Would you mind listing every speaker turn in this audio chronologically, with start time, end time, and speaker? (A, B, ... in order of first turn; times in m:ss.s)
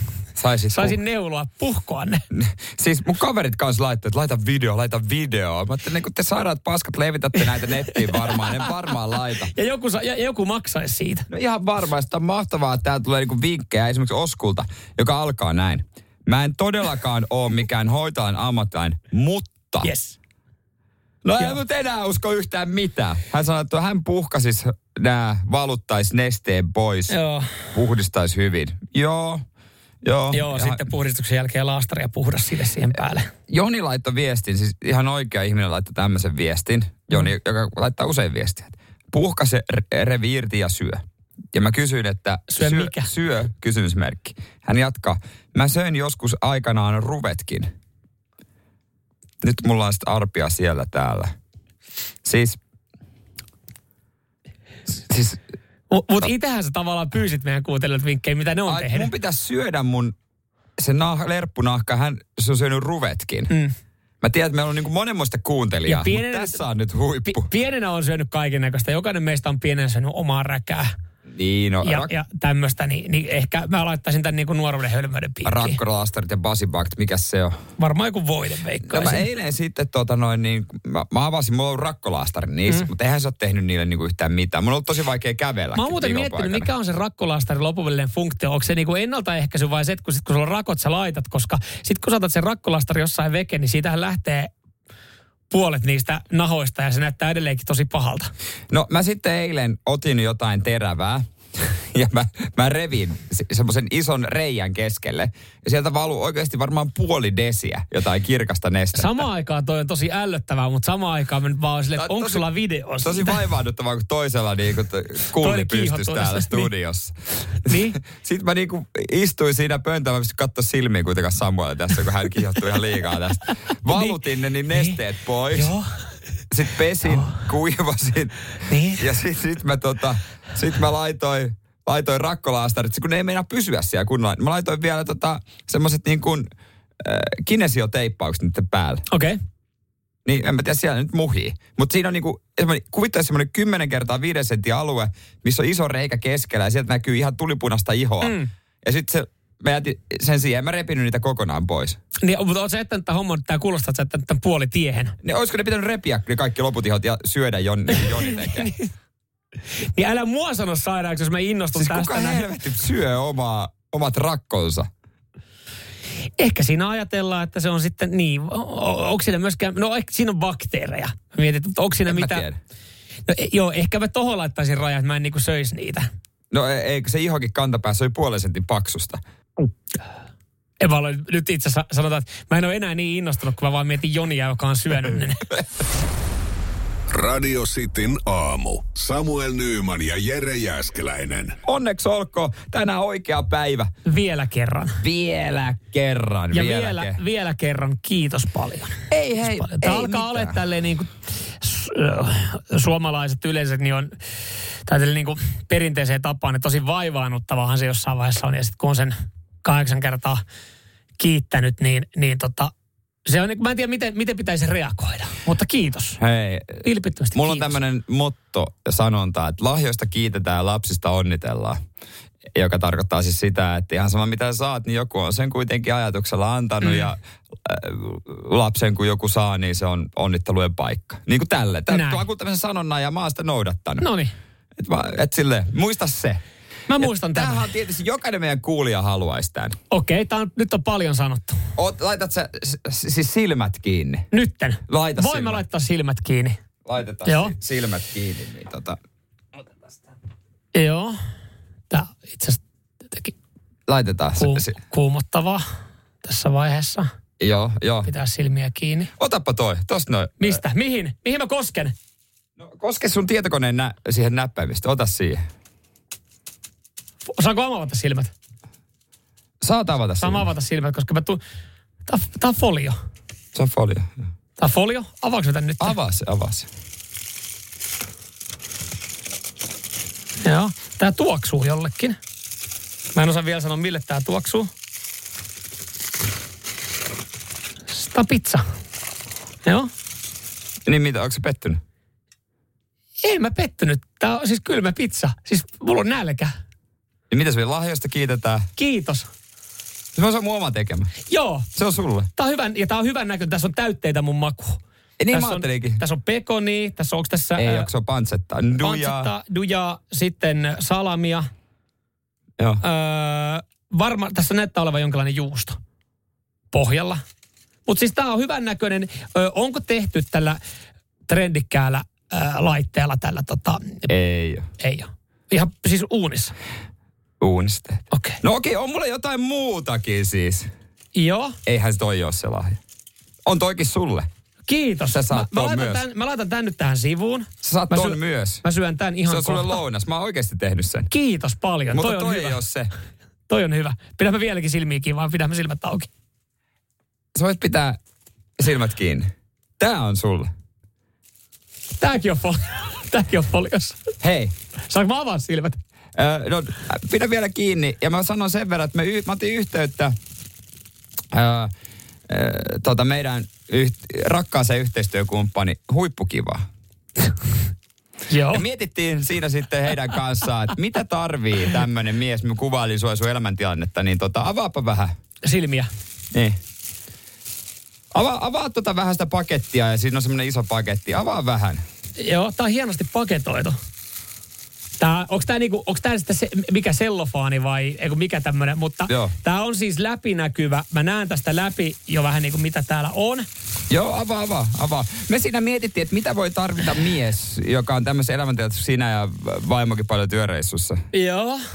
0:00.4-0:01.0 A
0:00.7-0:02.2 B
0:02.3-0:09.5 A
0:08.0-0:08.7 B
0:09.5-0:11.3 B
0:11.3-0:19.9 A
0:19.8-0:20.2 B
0:21.2-0:27.2 A
0:27.1-0:27.6 B
0:27.7-0:29.4 A
0:30.0-0:30.8 A
0:30.3-0:33.3 B
0:33.5-0:47.7 A
0:42.5-0:43.1 B
0:49.4-0:51.3 A
0:52.2-0:52.6 A
0:55.1-0:55.4 A
0:55.9-0:59.1 B
0:58.7-1:00.2 A
1:00.8-1:03.5 A
1:04.2-1:07.5 A
1:05.9-1:06.6 B
1:07.3-1:10.9 B
1:11.3-1:12.1 A
1:11.8-1:15.8 B
1:15.4-1:17.6 A
1:17.8-1:19.3 B
1:18.9-1:26.7 A
1:25.7-1:34.5 B
1:35.5-1:38.3 B
1:38.7-1:41.3 A
1:41.9-1:49.2 A
1:48.9-1:53.4 B
1:52.0-1:52.4 A
1:53.0-2:05.7 A
1:55.4-1:56.7 B
1:57.6-1:58.0 B
2:03.9-2:04.2 B
2:04.7-2:05.0 B
2:05.5-2:06.0 B
2:06.5-2:08.4 A
2:07.1-2:07.4 B
2:08.7-2:09.0 B
2:09.0-2:16.5 A
2:17.0-2:19.0 A
2:19.1-2:19.4 B
2:20.2-2:32.0 A
2:28.2-2:28.5 B
2:32.2-2:35.2 B
2:35.2-2:38.7 A
2:38.0-2:38.9 B
2:39.9-2:42.5 B
2:41.7-2:44.9 A
2:46.4-2:52.4 B
2:52.0-2:52.6 A
2:53.3-2:56.1 B
2:56.5-2:59.2 A
3:00.8-3:05.4 B
3:07.1-3:11.6 C
3:11.6-3:13.9 A
3:14.0-3:15.0 B
3:15.0-3:17.2 A
3:16.5-3:24.1 B
3:19.1-3:20.6 A
3:24.9-3:30.4 B
3:31.2-3:32.7 B
3:33.3-3:36.2 B
3:36.2-3:41.8 A
3:36.8-3:37.8 B
3:42.6-3:54.1 A
3:46.8-3:47.1 B
3:51.9-3:52.2 B
3:54.0-3:54.3 B
3:54.8-3:56.4 A
3:56.9-3:57.7 B
3:57.0-3:59.8 A
3:59.9-4:01.6 B
4:01.8-4:04.3 A
4:04.3-4:06.6 B
4:04.9-4:05.6 A
4:06.8-4:09.0 A
4:07.2-4:07.6 B
4:10.7-4:11.2 B
4:11.9-4:13.3 B
4:13.9-4:14.8 A
4:14.4-4:15.6 B
4:16.2-4:17.1 B
4:17.4-4:18.1 A
4:18.0-4:19.1 B
4:19.2-4:20.6 A
4:20.4-4:21.9 B
4:22.6-4:25.4 A
4:27.3-4:28.3 B
4:29.6-4:30.5 A
4:30.2-4:31.4 B
4:32.1-4:33.0 B
4:33.5-4:34.1 A
4:34.6-4:36.0 B
4:35.8-4:36.7 A
4:40.4-4:42.2 B
4:43.1-4:44.7 B
4:47.9-4:48.6 B
4:49.6-4:49.9 B
4:50.9-4:51.8 A
4:53.2-4:56.5 B
4:57.3-4:58.7 A
4:58.8-4:59.3 B
5:00.1-5:01.1 A
5:01.3-5:01.7 B
5:01.7-5:02.3 A
5:02.4-5:04.8 B
5:05.2-5:06.0 A
5:05.3-5:07.9 B
5:07.6-5:09.3 A
5:08.8-5:11.5 B
5:12.8-5:15.8 B
5:16.7-5:17.2 B
5:17.9-5:20.6 B
5:21.3-5:24.1 B
5:24.1-5:24.7 A
5:24.8-5:26.5 B
5:27.4-5:30.7 A
5:28.1-5:28.4 B
5:31.1-5:31.6 B
5:31.6-5:32.8 A
5:33.4-5:34.3 A
5:34.7-5:39.8 B
5:35.1-5:36.0 A
5:37.6-5:38.6 A
5:39.3-5:41.1 A
5:41.1-5:42.6 B
5:41.9-5:42.9 A
5:43.5-5:46.1 B
5:47.3-5:48.0 A
5:48.6-5:50.5 A
5:52.0-5:54.0 B
5:54.2-5:54.5 A
5:54.9-5:55.8 B
5:56.2-6:00.2 A
6:01.3-6:01.7 A
6:02.3-6:06.6 A
6:08.3-6:08.6 B
6:08.5-6:15.1 A
6:15.4-6:15.9 B
6:16.3-6:16.6 A
6:18.1-6:21.8 A
6:22.2-6:23.8 B
6:25.0-6:33.5 B
6:29.1-6:29.3 A
6:33.9-6:41.0 A
6:41.1-6:41.6 B